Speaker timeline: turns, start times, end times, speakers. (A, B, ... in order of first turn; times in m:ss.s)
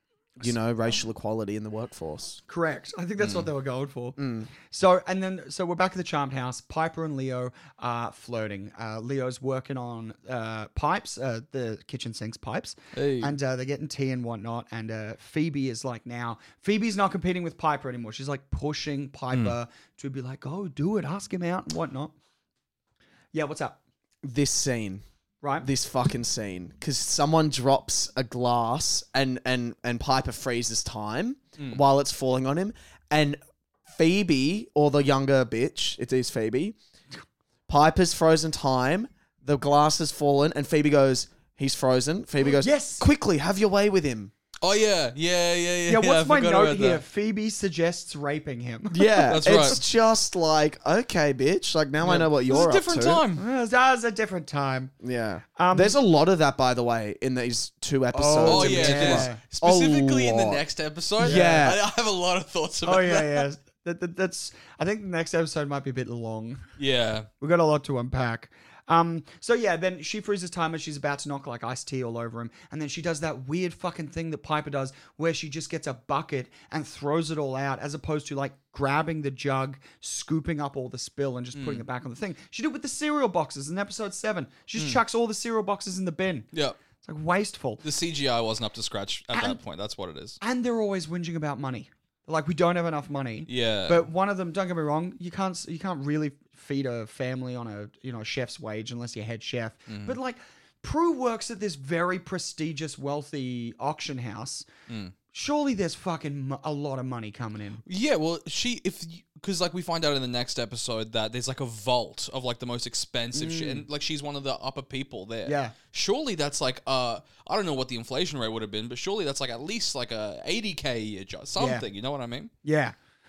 0:00.4-0:02.4 A
0:02.5-0:22.1 B
0:03.2-0:03.5 C
0:04.2-0:04.5 A
0:12.9-0:13.3 C
0:23.3-0:23.8 B
0:24.2-0:25.0 A
0:25.4-0:25.7 B
0:25.6-0:36.8 A
0:37.7-0:44.3 A
0:42.5-0:43.0 B
0:44.6-0:47.0 C
0:45.9-0:49.7 B
0:48.9-0:53.2 A
0:49.3-0:49.8 C
0:52.1-0:53.4 C
0:53.4-0:54.9 B
0:55.0-1:00.6 A
0:55.6-0:56.0 B
0:58.1-0:59.4 B
0:58.4-1:03.4 C
1:01.2-1:01.8 A
1:01.2-1:01.6 B
1:02.8-1:06.6 B
1:06.8-1:07.3 C
1:07.4-1:26.5 B
1:21.6-1:21.8 C
1:26.5-1:26.8 C
1:27.0-1:27.8 B
1:27.8-1:30.4 C
1:29.3-1:29.6 B
1:30.4-1:44.7 B
1:33.5-1:34.0 C
1:39.9-1:40.2 C
1:44.9-1:45.1 C
1:45.3-1:47.8 B
1:47.8-2:02.5 C
1:53.3-1:53.8 B
1:55.4-1:55.8 B
2:01.6-2:01.9 B
2:02.6-2:03.0 B